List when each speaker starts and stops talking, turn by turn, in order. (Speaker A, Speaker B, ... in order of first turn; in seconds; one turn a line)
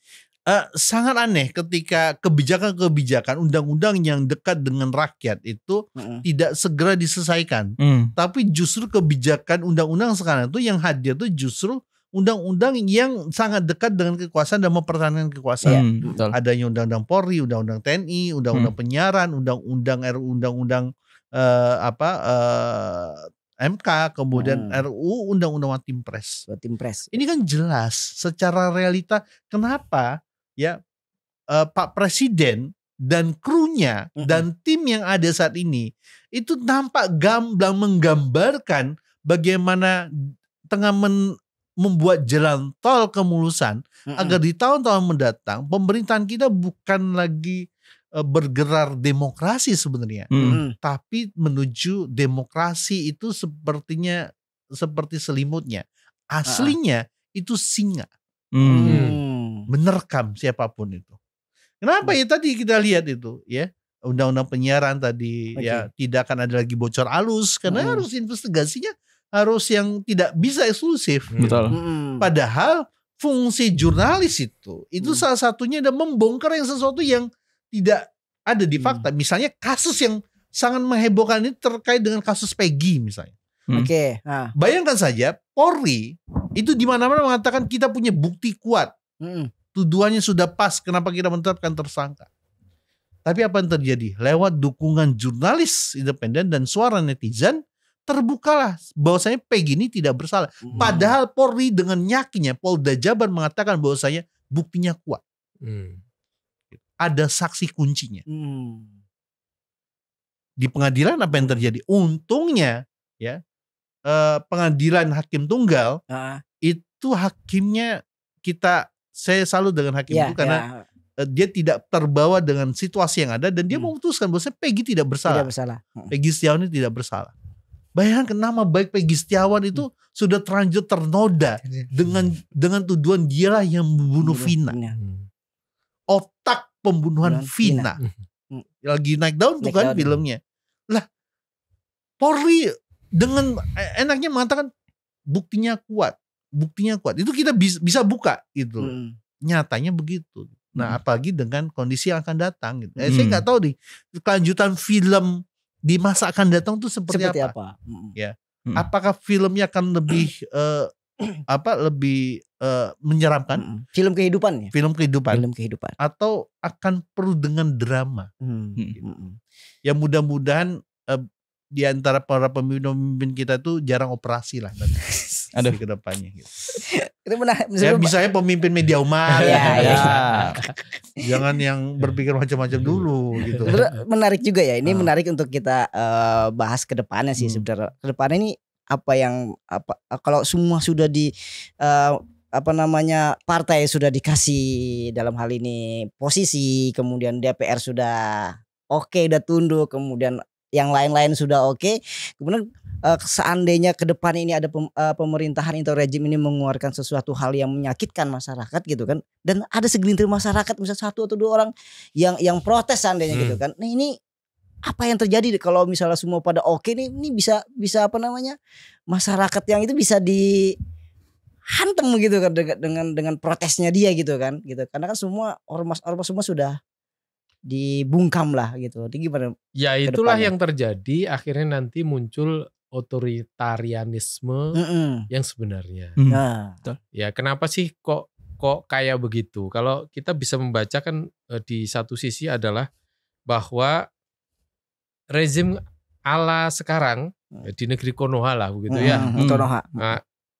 Speaker A: 0.5-26.5
Speaker B: 6.0-6.2
Speaker C: 7.8-8.1
Speaker B: 15.7-16.2
Speaker C: 15.7-16.4
Speaker B: 24.4-24.8
Speaker B: 26.5-27.2
Speaker A: 27.1-30.8
Speaker A: 31.5-47.6
Speaker B: 44.1-44.4
Speaker A: 48.2-50.3
Speaker C: 50.3-50.6
Speaker B: 50.4-50.7
Speaker A: 50.8-58.1
Speaker B: 56.5-56.8
Speaker C: 58.5-59.0
Speaker B: 58.6-59.7
Speaker D: 58.9-59.2
Speaker A: 59.7-61.1
Speaker A: 61.8-71.5
Speaker B: 65.6-65.9
Speaker B: 67.7-68.0
Speaker D: 71.3-71.7
Speaker C: 71.4-71.8
Speaker B: 71.7-72.3
Speaker A: 72.2-83.3
Speaker B: 78.8-79.1
Speaker B: 83.7-84.5
Speaker A: 84.6-88.9
Speaker B: 89.2-89.5
Speaker A: 89.7-92.3
Speaker A: 93.3-105.2
Speaker B: 100.6-101.2
Speaker D: 105.6-106.0
Speaker A: 106.8-108.2
Speaker B: 108.3-108.9
Speaker A: 110.6-113.4
Speaker B: 111.3-111.6
Speaker A: 114.1-116.0
Speaker B: 116.1-116.4
Speaker A: 116.6-120.7
Speaker B: 120.1-120.8
Speaker A: 121.2-125.5
Speaker B: 125.3-126.1
Speaker A: 126.1-127.3
Speaker A: 128.0-134.8
Speaker B: 134.2-135.0
Speaker D: 134.9-135.3
Speaker A: 136.1-138.0
Speaker B: 137.2-137.9
Speaker A: 138.8-141.1
Speaker B: 139.6-140.2
Speaker A: 142.2-144.7
Speaker A: 145.3-148.9
Speaker B: 148.8-149.1
Speaker A: 149.4-157.5
Speaker C: 153.1-153.4
Speaker B: 157.1-158.2
Speaker A: 158.2-160.9
Speaker A: 161.5-163.6
Speaker B: 163.6-164.7
Speaker A: 164.7-165.4
Speaker B: 165.3-166.0
Speaker A: 166.0-168.3
Speaker B: 168.4-169.4
Speaker A: 169.8-176.5
Speaker B: 176.7-178.1
Speaker A: 177.8-180.1
Speaker B: 179.4-180.2
Speaker D: 179.4-180.8
Speaker C: 179.7-180.6
Speaker A: 181.2-183.8
Speaker D: 183.7-184.0
Speaker B: 183.7-214.2
Speaker A: 187.4-187.7
Speaker D: 213.3-213.6
Speaker B: 214.8-218.6
Speaker B: 219.1-220.8
Speaker B: 221.7-226.8
Speaker B: 227.7-229.6
Speaker D: 229.8-234.8
Speaker B: 230.1-230.5
Speaker B: 234.8-235.3
Speaker D: 235.3-236.2
Speaker C: 236.2-237.0
Speaker B: 236.3-236.8
Speaker D: 237.2-242.9
Speaker D: 243.5-244.1
Speaker D: 245.3-249.3
Speaker B: 248.9-250.1
Speaker C: 249.1-249.7